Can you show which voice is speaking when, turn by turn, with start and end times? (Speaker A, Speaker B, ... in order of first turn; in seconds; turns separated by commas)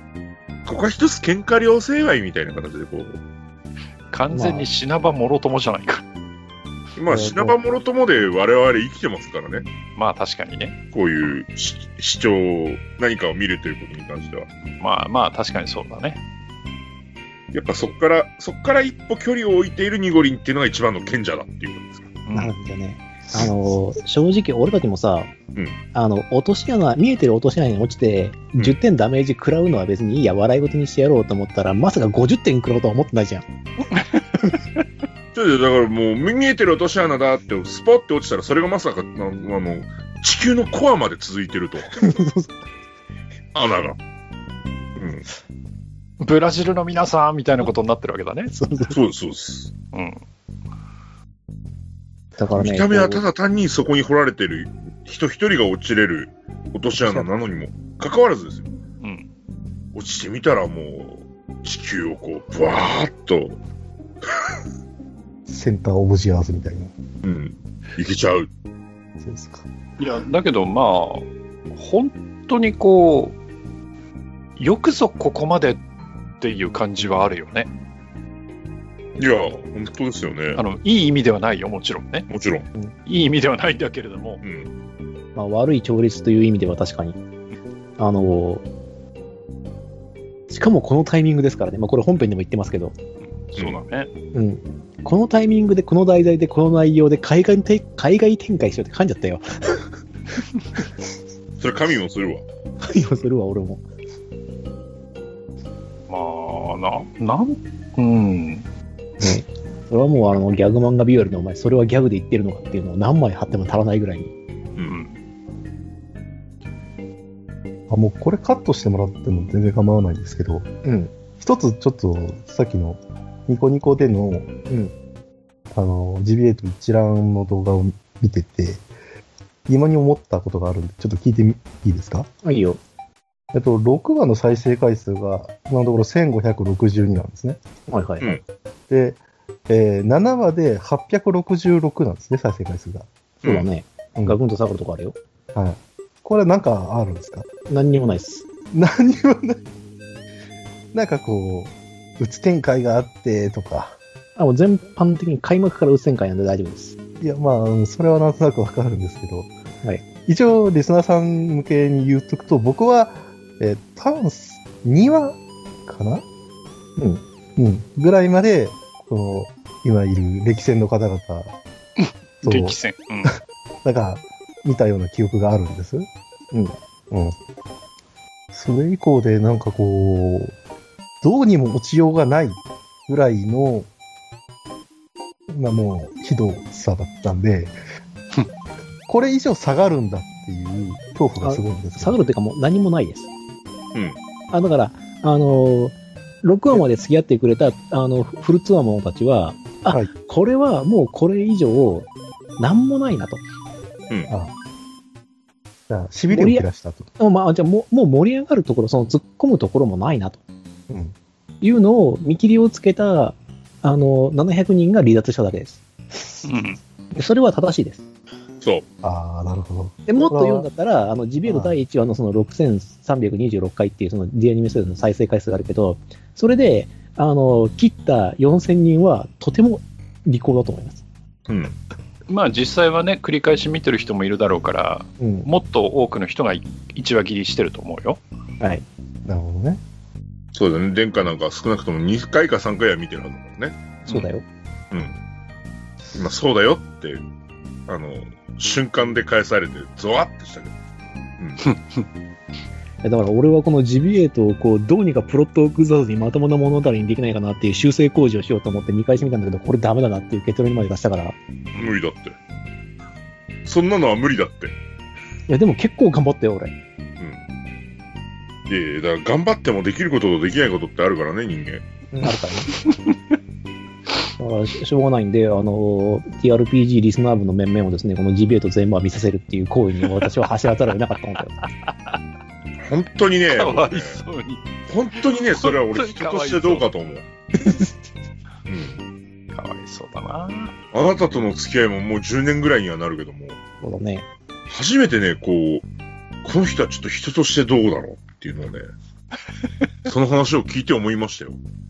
Speaker A: 0.6-3.2, Speaker B: 4.1-6.0, Speaker C: 4.3-4.7, Speaker A: 7.0-9.7, Speaker C: 7.1-7.5, Speaker B: 9.9-10.8, Speaker A: 10.9-14.5, Speaker B: 14.8-16.2, Speaker A: 17.5-22.2, Speaker B: 22.2-22.5, Speaker C: 22.3-25.3, Speaker C: 25.9-33.5, Speaker A: 35.3-42.1, Speaker C: 41.9-42.5, Speaker A: 43.5-44.0, Speaker A: 45.0-45.2, Speaker B: 46.2-48.5, Speaker C: 48.5-48.9, Speaker A: 48.9-49.7, Speaker B: 49.9-50.2, Speaker C: 52.4-53.2, Speaker A: 52.5-58.7, Speaker C: 57.0-57.3, Speaker B: 59.0-59.3, Speaker A: 59.9-63.6, Speaker D: 65.5-66.9, Speaker A: 67.2-68.5, Speaker D: 69.2-69.7, Speaker B: 70.0-73.4, Speaker B: 74.6-75.8, Speaker B: 76.4-77.7, Speaker A: 79.2-80.6, Speaker B: 80.5-82.3, Speaker A: 82.3-82.7, Speaker B: 83.0-84.4, Speaker A: 84.4-84.7, Speaker C: 85.3-87.2, Speaker C: 88.0-88.6, Speaker C: 90.5-93.0, Speaker B: 93.4-94.1, Speaker A: 93.5-93.8, Speaker C: 94.3-99.8, Speaker A: 101.6-102.4, Speaker C: 102.8-103.8, Speaker B: 106.1-108.6, Speaker C: 109.2-114.3, Speaker B: 114.8-115.2, Speaker D: 117.9-120.7, Speaker C: 120.8-121.1, Speaker D: 121.4-124.5, Speaker D: 125.7-128.8, Speaker D: 129.7-132.3, Speaker C: 132.4-132.8, Speaker D: 133.5-137.6, Speaker C: 137.9-138.4, Speaker D: 138.9-143.1, Speaker A: 143.4-143.7, Speaker C: 143.4-145.2, Speaker D: 145.5-147.5, Speaker C: 147.7-148.5, Speaker D: 148.7-149.6, Speaker D: 150.9-154.0, Speaker C: 154.4-157.0, Speaker D: 157.2-159.5, Speaker D: 160.2-166.2, Speaker C: 167.0-167.2, Speaker D: 167.6-171.6, Speaker B: 172.0-173.3, Speaker D: 172.4-172.8, Speaker D: 173.8-176.1, Speaker D: 177.1-177.3, Speaker D: 178.5-180.5, Speaker D: 181.2-183.9, Speaker D: 185.5-187.8, Speaker D: 189.1-192.2, Speaker C: 191.4-193.3, Speaker C: 194.5-203.4, Speaker D: 205.9-207.1, Speaker C: 206.3-206.6, Speaker C: 207.2-210.4, Speaker D: 210.9-211.1, Speaker C: 211.6-215.8, Speaker B: 216.4-216.8, Speaker C: 217.1-218.0, Speaker D: 219.0-220.7, Speaker C: 220.1-231.0, Speaker D: 221.4-221.7, Speaker A: 231.5-231.8, Speaker B: 232.3-238.2, Speaker C: 235.2-235.5, Speaker C: 238.6-238.8, Speaker D: 239.2-239.8, Speaker A: 240.5-243.8, Speaker C: 244.1-244.4, Speaker A: 244.9-245.2, Speaker A: 246.1-247.2, Speaker A: 247.9-250.7, Speaker A: 251.4-251.6, Speaker B: 251.6-252.1, Speaker C: 253.0-261.4, Speaker A: 261.8-262.4, Speaker A: 263.6-264.7, Speaker C: 265.5-266.7, Speaker A: 268.7-271.8, Speaker C: 272.1-272.9, Speaker B: 272.8-273.1, Speaker C: 274.4-281.6, Speaker B: 281.8-282.2, Speaker A: 282.8-284.2, Speaker B: 283.5-284.6, Speaker A: 284.9-287.2, Speaker B: 285.2-286.9, Speaker C: 287.6-287.9, Speaker A: 288.7-289.0, Speaker B: 289.5-290.7, Speaker A: 290.9-293.6, Speaker C: 293.8-294.3, Speaker A: 294.7-295.8, Speaker A: 296.4-298.8, Speaker A: 300.0-301.6